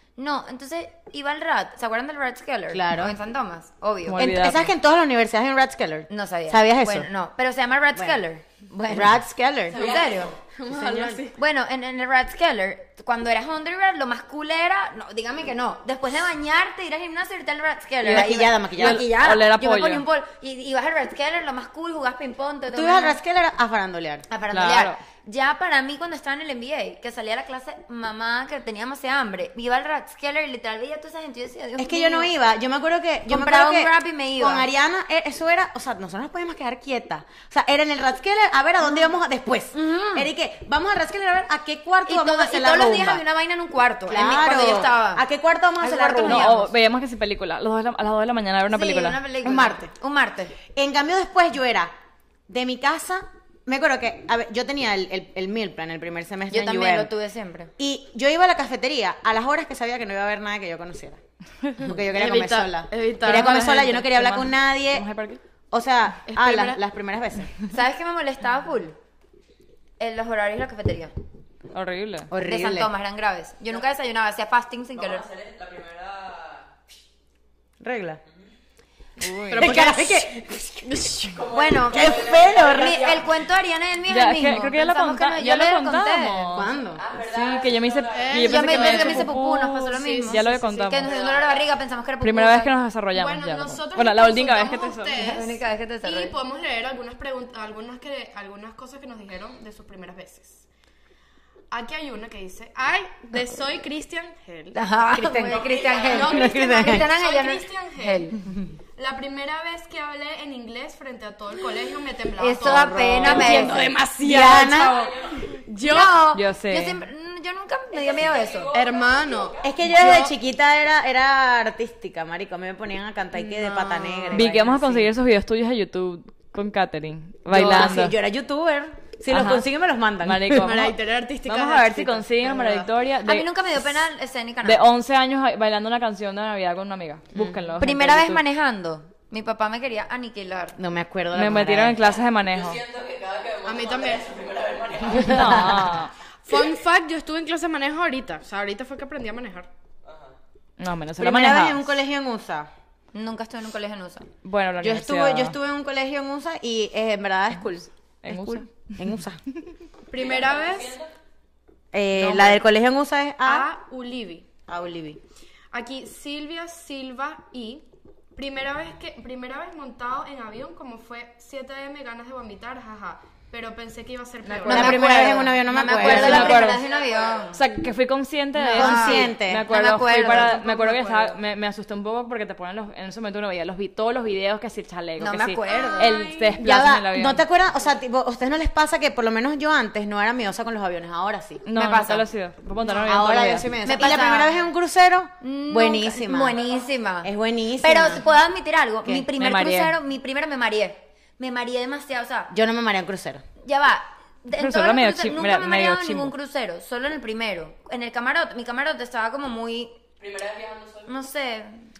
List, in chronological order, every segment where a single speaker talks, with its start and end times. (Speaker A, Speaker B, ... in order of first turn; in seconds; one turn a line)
Speaker A: 0.2-4.4
Speaker B: 2.7-3.1
Speaker C: 4.1-4.7
Speaker B: 4.2-7.1
Speaker A: 6.1-10.3
Speaker B: 8.8-9.8
Speaker D: 9.7-10.4
Speaker E: 10.5-11.4
Speaker B: 10.7-11.2
Speaker A: 11.3-23.2
Speaker B: 18.0-19.1
Speaker C: 18.8-20.0
Speaker B: 22.7-24.3
Speaker A: 24.3-32.3
Speaker C: 24.5-25.0
Speaker B: 31.8-43.2
Speaker A: 33.3-34.7
Speaker A: 39.7-40.3
Speaker A: 42.1-45.2
Speaker B: 44.1-46.5
Speaker A: 45.8-46.7
Speaker C: 46.2-49.2
Speaker A: 48.7-50.5
Speaker B: 49.4-49.9
Speaker B: 50.7-51.9
Speaker B: 52.5-57.1
Speaker A: 56.5-57.7
Speaker B: 57.8-61.2
Speaker B: 61.8-65.1
Speaker E: 61.8-64.0
Speaker C: 63.2-65.4
Speaker B: 65.7-67.5
Speaker E: 66.3-66.8
Speaker A: 67.7-69.0
Speaker A: 70.0-71.1
Speaker C: 71.7-72.3
Speaker B: 72.3-72.9
Speaker A: 72.4-75.3
Speaker D: 75.0-76.7
Speaker B: 77.8-78.2
Speaker C: 79.2-79.7
Speaker E: 79.5-81.4
Speaker B: 79.5-81.0
Speaker D: 81.2-83.5
Speaker A: 81.5-86.5
Speaker B: 81.7-83.1
Speaker C: 84.1-91.1
Speaker B: 86.5-87.0
Speaker D: 86.9-88.7
Speaker E: 88.1-89.3
Speaker A: 88.4-92.7
Speaker E: 89.9-91.0
Speaker D: 91.0-91.7
Speaker C: 92.2-95.3
Speaker E: 93.1-100.7
Speaker A: 95.2-96.4
Speaker E: 101.7-104.8
Speaker A: 104.7-108.4
Speaker B: 105.1-107.1
Speaker D: 105.5-106.4
Speaker E: 106.1-108.4
Speaker E: 109.0-116.3
Speaker A: 112.4-113.8
Speaker B: 112.6-115.1
Speaker D: 114.5-115.6
Speaker A: 115.8-118.7
Speaker C: 116.3-117.0
Speaker D: 117.9-120.1
Speaker E: 118.7-120.3
Speaker B: 119.6-125.1
Speaker E: 123.3-124.7
Speaker C: 124.3-128.2
Speaker B: 127.5-130.7
Speaker C: 129.3-129.7
Speaker C: 130.2-133.5
Speaker E: 130.6-132.9
Speaker A: 133.2-134.8
Speaker C: 134.6-138.4
Speaker B: 137.3-137.7
Speaker A: 137.8-140.8
Speaker B: 140.8-142.0
Speaker C: 141.3-142.8
Speaker D: 142.4-145.9
Speaker E: 143.7-144.3
Speaker B: 145.2-145.9
Speaker C: 145.2-146.1
Speaker E: 146.5-149.7
Speaker D: 150.1-150.3
Speaker C: 150.8-151.8
Speaker B: 151.2-152.7
Speaker A: 153.1-154.3
Speaker C: 154.4-155.6
Speaker B: 154.8-159.4
Speaker C: 158.2-159.1
Speaker E: 160.1-161.0
Speaker D: 160.1-161.1
Speaker B: 161.9-163.7
Speaker C: 162.2-162.6
Speaker E: 163.4-164.5
Speaker B: 164.7-165.2
Speaker E: 165.7-167.8
Speaker E: 168.3-175.2
Speaker A: 174.5-177.6
Speaker B: 174.7-176.7
Speaker C: 175.9-176.8
Speaker E: 176.0-176.5
Speaker D: 176.3-177.6
Speaker C: 177.5-187.4
Speaker A: 178.6-180.6
Speaker B: 178.7-179.7
Speaker E: 180.3-181.4
Speaker A: 185.2-186.2
Speaker E: 185.7-186.6
Speaker B: 186.6-191.7
Speaker C: 191.7-193.7
Speaker A: 191.7-192.3
Speaker B: 193.0-196.6
Speaker A: 193.8-194.6
Speaker A: 195.4-202.5
Speaker B: 197.2-198.2
Speaker C: 199.4-200.0
Speaker B: 202.5-203.4
Speaker A: 203.6-210.0
Speaker C: 204.6-206.3
Speaker D: 210.2-211.2
Speaker A: 211.1-211.9